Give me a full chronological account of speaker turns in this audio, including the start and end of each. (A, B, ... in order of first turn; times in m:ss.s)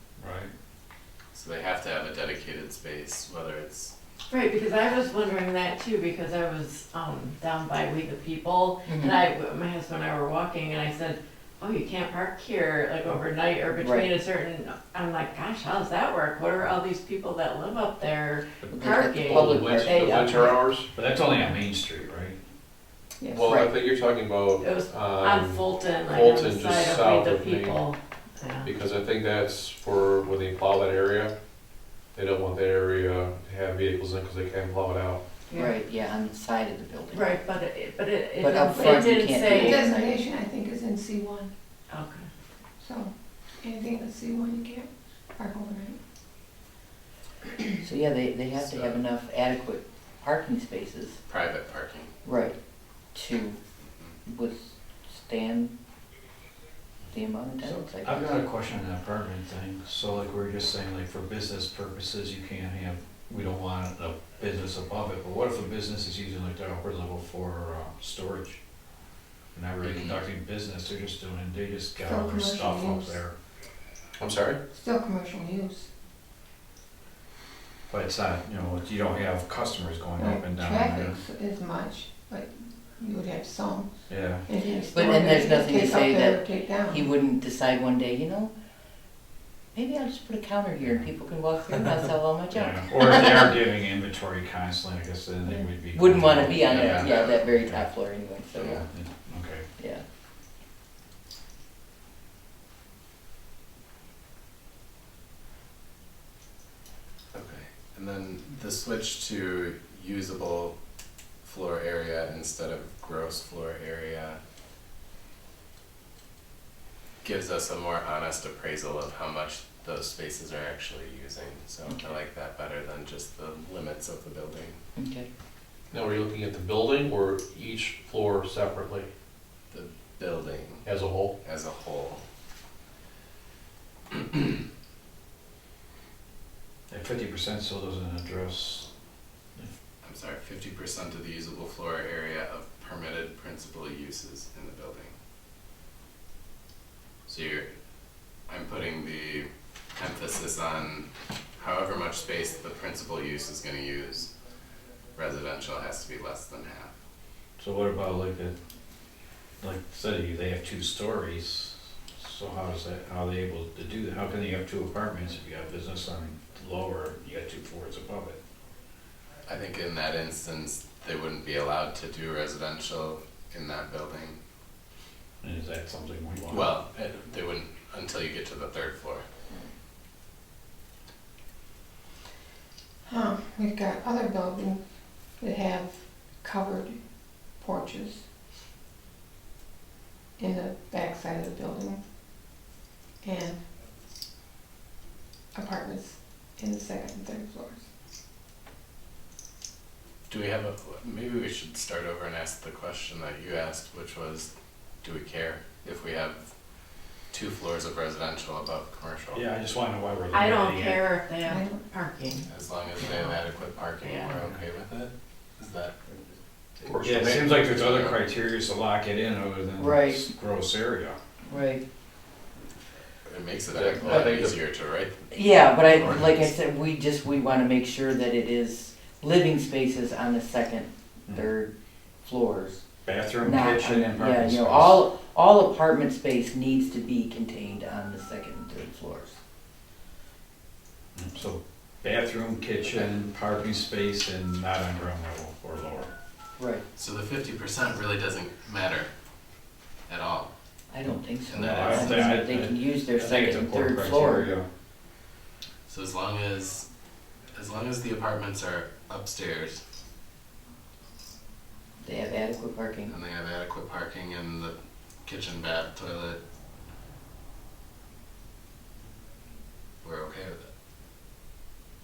0:00.2-0:00.5 A
0:01.3-0:03.9 B
0:04.3-0:20.5 C
0:08.8-0:09.2 D
0:13.8-0:14.1 D
0:18.7-0:20.6 D
0:19.2-0:20.9 E
0:20.9-0:22.4 A
0:23.2-0:23.5 F
0:23.3-0:27.9 E
0:23.4-0:23.7 D
0:24.6-0:28.7 C
0:28.6-0:31.3 E
0:32.1-0:35.2 E
0:35.5-0:35.7 C
0:35.5-0:37.4 D
0:37.1-0:39.9 C
0:38.4-0:40.2 D
0:38.6-0:41.5 F
0:41.9-0:42.3 C
0:42.8-0:46.0 F
0:47.8-0:51.2 D
0:48.6-0:49.0 B
0:51.3-0:52.1 B
0:52.2-0:52.6 D
0:53.1-0:53.6 D
0:54.2-0:55.7 D
0:57.1-0:58.4 D
0:57.6-1:08.6 A
1:09.5-1:13.4 A
1:09.8-1:10.2 B
1:12.0-1:13.2 F
1:14.2-1:14.6 E
1:14.7-1:15.9 F
1:17.9-1:21.2 A
1:20.2-1:27.1 F
1:24.1-1:24.5 A
1:24.9-1:28.5 D
1:29.7-1:33.5 D
1:30.8-1:31.1 A
1:32.5-1:37.9 A
1:35.9-1:38.8 D
1:36.6-1:37.4 B
1:38.7-1:39.6 A
1:39.8-1:40.0 D
1:47.3-1:50.8 B
1:51.4-1:54.4 B
1:57.2-2:04.8 B
2:05.0-2:05.3 D
2:05.9-2:09.1 E
2:09.7-2:10.9 B
2:10.8-2:11.4 E
2:11.4-2:12.2 B
2:16.9-2:18.9 A
2:20.0-2:25.1 B
2:27.3-2:27.7 B
2:28.5-2:34.3 B
2:35.1-2:36.9 B
2:37.6-2:38.6 A
2:39.6-2:48.4 A
2:49.4-2:54.4 B
2:55.4-2:56.7 A
2:56.5-2:59.2 B
3:03.0-3:04.8 F
3:05.4-3:07.0 F
3:07.6-3:08.2 F
3:10.4-3:12.0 F
3:13.2-3:13.6 F
3:15.5-3:17.8 F
3:20.3-3:24.5 B
3:25.0-3:26.5 B
3:27.3-3:29.5 B
3:29.3-3:31.0 A
3:30.3-3:32.5 C
3:31.4-3:31.8 F
3:32.4-3:35.9 B
3:33.0-3:33.3 C
3:34.0-3:34.3 C
3:36.8-3:37.6 E
3:37.0-3:41.2 A
3:37.6-3:38.2 B
3:39.8-3:40.3 D
3:41.5-3:41.8 D
3:43.2-3:46.5 B
3:43.7-3:44.6 E
3:45.3-3:51.7 D
3:52.2-3:52.8 D
3:53.0-3:55.1 A
3:53.4-3:59.4 D
4:01.1-4:06.1 A
4:06.6-4:06.8 D
4:06.9-4:09.1 B
4:10.1-4:10.5 B
4:10.9-4:14.5 D
4:11.5-4:12.2 B
4:11.6-4:14.7 A
4:15.9-4:16.9 B
4:17.5-4:19.8 B
4:22.0-4:23.1 D
4:23.1-4:26.4 B
4:30.0-4:30.7 B